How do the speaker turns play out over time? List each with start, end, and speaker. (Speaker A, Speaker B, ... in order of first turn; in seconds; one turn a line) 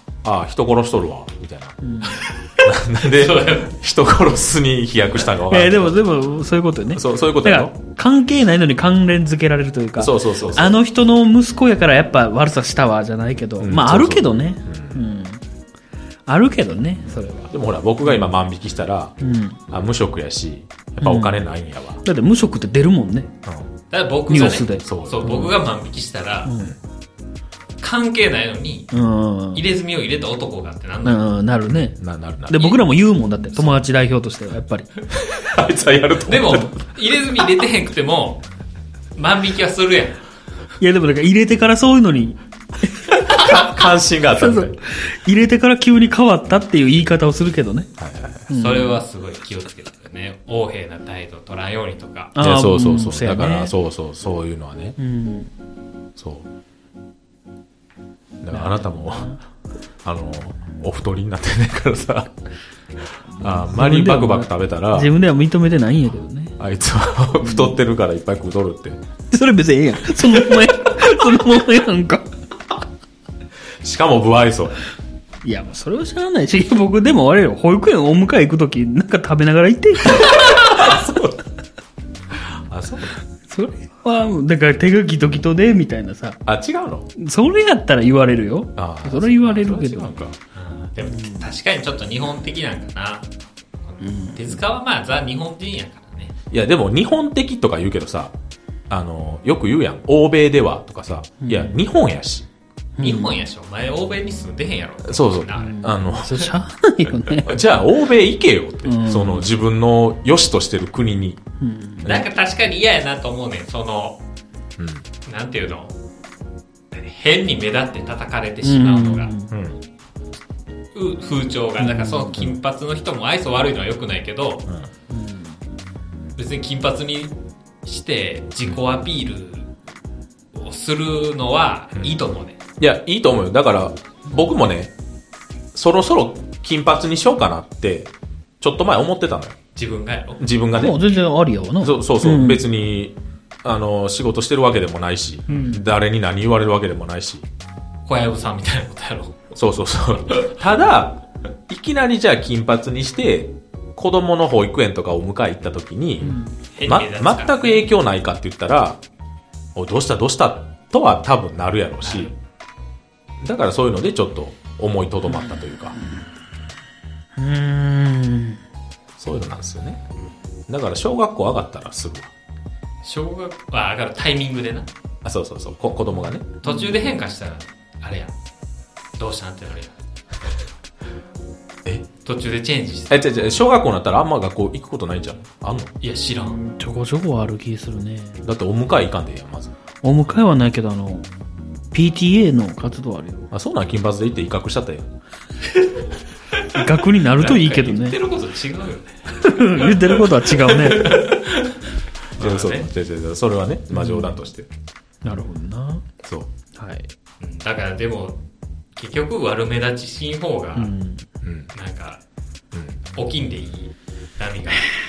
Speaker A: 0.2-1.8
Speaker B: 1.8-2.2
Speaker A: 2.6-6.1
Speaker C: 3.1-3.7
Speaker B: 5.4-15.4
Speaker A: 6.9-7.7
Speaker A: 10.0-10.8
Speaker A: 13.6-15.0
Speaker B: 16.3-17.5
Speaker A: 17.5-19.1
Speaker B: 19.2-19.6
Speaker A: 19.7-22.0
Speaker B: 21.0-21.4
Speaker B: 22.0-23.3
Speaker A: 23.4-23.7
Speaker C: 23.9-26.5
Speaker B: 24.3-25.6
Speaker A: 24.4-25.4
Speaker B: 26.4-26.8
Speaker C: 27.8-28.9
Speaker B: 28.9-29.6
Speaker C: 29.5-31.4
Speaker B: 31.0-32.0
Speaker A: 31.6-32.8
Speaker B: 32.5-34.9
Speaker C: 33.6-33.8
Speaker A: 35.1-36.7
Speaker C: 36.3-38.4
Speaker C: 39.1-40.2
Speaker B: 40.8-43.2
Speaker A: 43.2-44.8
Speaker B: 44.3-47.9
Speaker A: 48.0-48.5
Speaker B: 48.5-49.0
Speaker C: 48.5-52.3
Speaker B: 52.3-53.7
Speaker A: 52.4-55.0
Speaker B: 55.0-55.5
Speaker A: 56.2-56.5
Speaker A: 58.4-59.4
Speaker B: 58.5-59.4
Speaker A: 60.0-62.3
Speaker B: 63.3-66.5
Speaker A: 63.4-65.1
Speaker A: 66.6-69.0
Speaker B: 67.4-67.8
Speaker B: 69.3-72.3
Speaker A: 70.3-70.7
Speaker A: 73.8-74.9
Speaker B: 75.4-81.0
Speaker A: 80.1-81.3
Speaker A: 82.5-83.2
Speaker B: 83.5-86.4
Speaker A: 86.5-87.1
Speaker B: 87.1-90.2
Speaker A: 88.8-90.3
Speaker C: 90.5-93.3
Speaker B: 91.0-91.5
Speaker C: 93.8-96.3
Speaker B: 94.0-94.6
Speaker A: 96.5-98.3
Speaker A: 98.9-102.5
Speaker B: 101.4-101.8
Speaker B: 103.0-103.4
Speaker C: 103.0-105.9
Speaker A: 105.0-106.5
Speaker B: 105.5-107.7
Speaker A: 107.4-111.4
Speaker B: 108.8-109.5
Speaker B: 111.6-112.1
Speaker A: 112.0-112.3
Speaker C: 112.0-114.2
Speaker A: 114.8-115.0
Speaker C: 115.2-116.0
Speaker C: 116.9-119.3
Speaker B: 118.6-119.5
Speaker A: 119.5-119.8
Speaker C: 120.9-124.7
Speaker B: 121.8-122.4
Speaker B: 125.1-125.6
Speaker C: 126.3-129.7
Speaker C: 130.5-132.6
Speaker A: 132.8-134.9
Speaker A: 135.7-139.6
Speaker C: 139.7-140.4
Speaker A: 140.4-141.0
Speaker B: 140.7-142.6
Speaker A: 141.8-147.4
Speaker B: 145.5-145.9
Speaker C: 145.5-145.8
Speaker C: 148.0-149.3
Speaker A: 149.5-159.0
Speaker B: 156.2-156.6
Speaker C: 156.7-157.9
Speaker A: 159.7-162.3
Speaker C: 162.0-162.3
Speaker A: 163.4-166.0
Speaker B: 165.3-166.2
Speaker B: 167.4-168.6
Speaker A: 169.2-170.0
Speaker A: 170.7-172.3
Speaker C: 173.0-174.9
Speaker A: 175.2-176.6
Speaker C: 176.6-178.3
Speaker B: 176.6-177.0
Speaker C: 179.2-179.9
Speaker C: 182.2-183.2
Speaker A: 183.1-185.9
Speaker C: 186.0-186.6
Speaker B: 186.3-188.4
Speaker A: 188.4-189.7
Speaker B: 190.0-191.3
Speaker B: 191.9-193.5
Speaker A: 193.5-195.1
Speaker C: 195.7-196.1
Speaker B: 196.7-198.2
Speaker C: 196.9-201.8
Speaker B: 199.3-201.2
Speaker C: 202.3-202.9
Speaker A: 202.4-204.7
Speaker B: 203.9-204.4
Speaker B: 205.2-206.0
Speaker A: 206.2-206.5
Speaker B: 206.8-207.1
Speaker C: 207.4-208.4
Speaker C: 208.9-210.9
Speaker B: 210.7-211.2
Speaker A: 211.4-211.7
Speaker C: 211.7-212.2
Speaker A: 212.7-213.0
Speaker C: 213.1-214.9